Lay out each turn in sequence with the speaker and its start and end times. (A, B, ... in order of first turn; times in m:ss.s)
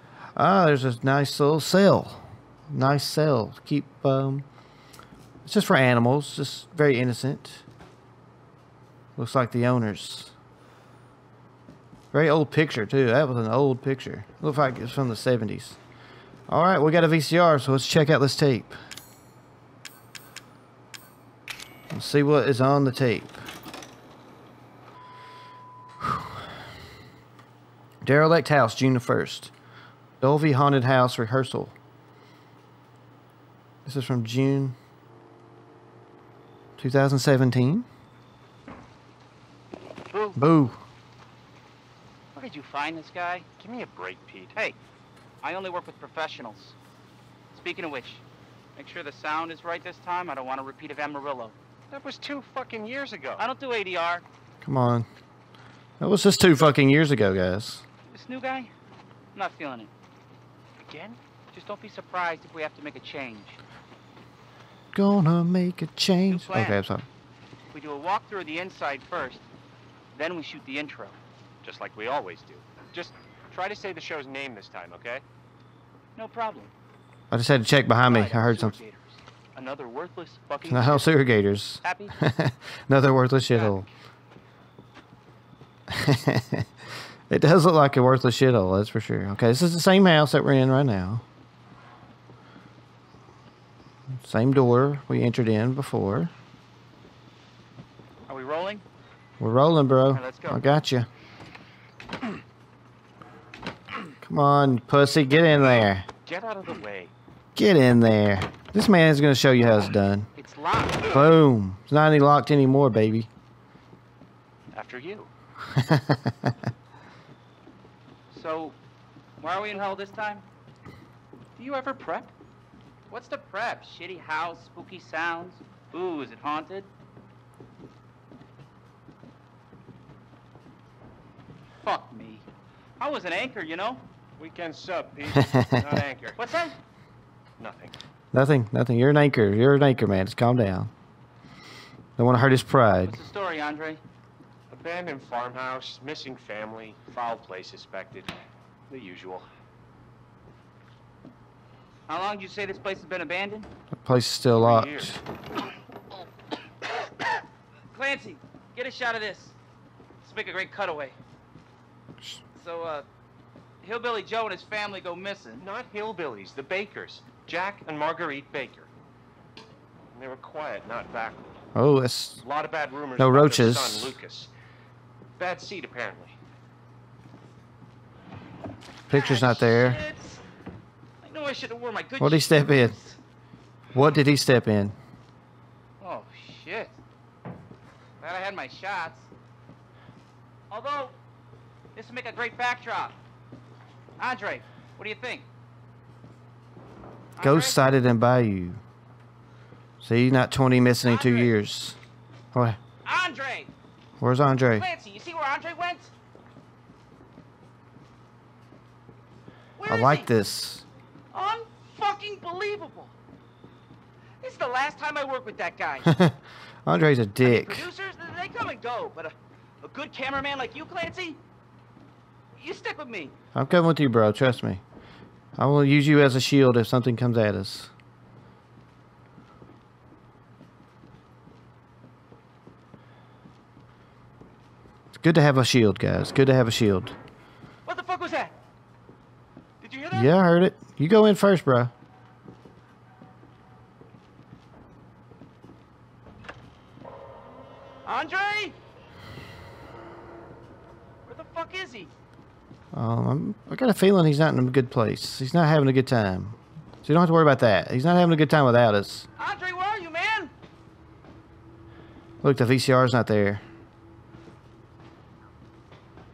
0:00.3-0:04.4 A
0:05.4-0:07.6 A
0:09.2-0:10.3 A
0:12.1-0:15.8 A
0:16.5-0:18.8 A
0:21.9-0:23.4 A
0:26.0-0:26.6 A
0:28.0-0:29.5 A
0:30.2-0:31.7 A
0:33.8-0:34.8 A
0:36.8-0:37.8 A
0:40.1-0:40.4 B
0:40.4-0:40.8 A
0:42.3-0:43.4 B
0:43.6-0:44.5 C
0:45.4-0:46.8 B
0:47.5-0:48.2 B
0:48.8-0:51.6 B
0:51.9-0:53.4 C
0:53.4-0:54.2 B
0:54.6-0:55.1 A
0:56.0-0:57.8 A
0:58.1-0:58.7 B
0:59.3-0:59.9 B
1:00.8-1:01.2 C
1:01.5-1:03.6 B
1:04.9-1:07.0 A
1:06.3-1:06.8 B
1:07.7-1:09.4 B
1:10.1-1:11.2 B
1:11.6-1:15.2 C
1:16.2-1:16.7 B
1:17.3-1:18.8 A
1:18.0-1:19.2 B
1:19.5-1:21.0 C
1:20.6-1:23.8 A
1:21.8-1:22.1 B
1:23.5-1:23.8 B
1:25.9-1:26.7 A
1:27.3-1:31.2 A
1:34.2-1:36.3 A
1:38.3-1:38.8 B
1:39.4-1:41.1 A
1:40.1-1:40.7 B
1:44.2-1:46.1 A
1:46.2-1:47.1 C
1:47.6-1:50.3 A
1:50.4-1:51.4 B
1:51.0-1:53.3 A
1:54.7-1:55.3 C
1:55.7-1:56.6 A
1:58.3-1:58.8 B
1:59.4-2:00.4 B
2:01.6-2:02.3 B
2:03.1-2:06.9 B
2:11.8-2:12.4 B
2:13.0-2:14.0 B
2:14.4-2:16.4 C
2:15.4-2:16.0 A
2:16.4-2:16.8 B
2:17.6-2:17.9 C
2:18.3-2:20.9 A
2:22.2-2:23.2 A
2:23.0-2:24.0 B
2:24.7-2:28.3 C
2:28.9-2:29.5 C
2:32.1-2:33.7 B
2:34.0-2:35.2 A
2:34.6-2:35.2 C
2:37.9-2:39.5 B
2:40.2-2:41.1 B
2:42.6-2:43.0 B
2:43.8-2:45.6 B
2:45.6-2:48.9 C
2:50.1-2:51.6 C
2:51.7-2:52.4 A
2:52.4-2:54.5 C
2:53.2-2:54.2 A
2:55.4-2:56.4 C
2:59.1-3:00.0 A
2:59.1-3:00.4 B
3:01.2-3:03.2 B
3:02.2-3:03.0 A
3:03.9-3:05.0 A
3:06.0-3:07.0 B
3:08.2-3:09.3 B
3:10.7-3:11.1 B
3:11.9-3:13.2 B
3:14.2-3:15.4 B
3:17.4-3:17.8 B
3:17.4-3:18.8 A
3:20.0-3:22.0 A
3:21.0-3:21.5 B
3:22.5-3:22.8 A
3:23.0-3:23.7 B
3:24.2-3:24.9 A
3:24.8-3:26.1 B
3:29.8-3:30.3 B
3:29.9-3:30.8 A
3:31.3-3:33.1 B
3:34.4-3:36.1 B
3:36.0-3:37.9 A
3:37.4-3:41.4 B
3:42.6-3:43.3 B
3:43.5-3:44.8 A
3:45.6-3:47.9 A
3:55.1-3:57.2 A
3:57.8-3:58.5 B
3:59.8-4:00.3 B
4:00.1-4:01.9 A
4:08.0-4:08.8 B
4:11.2-4:12.1 B
4:12.9-4:19.3 A
4:19.4-4:20.5 B
4:22.4-4:23.6 A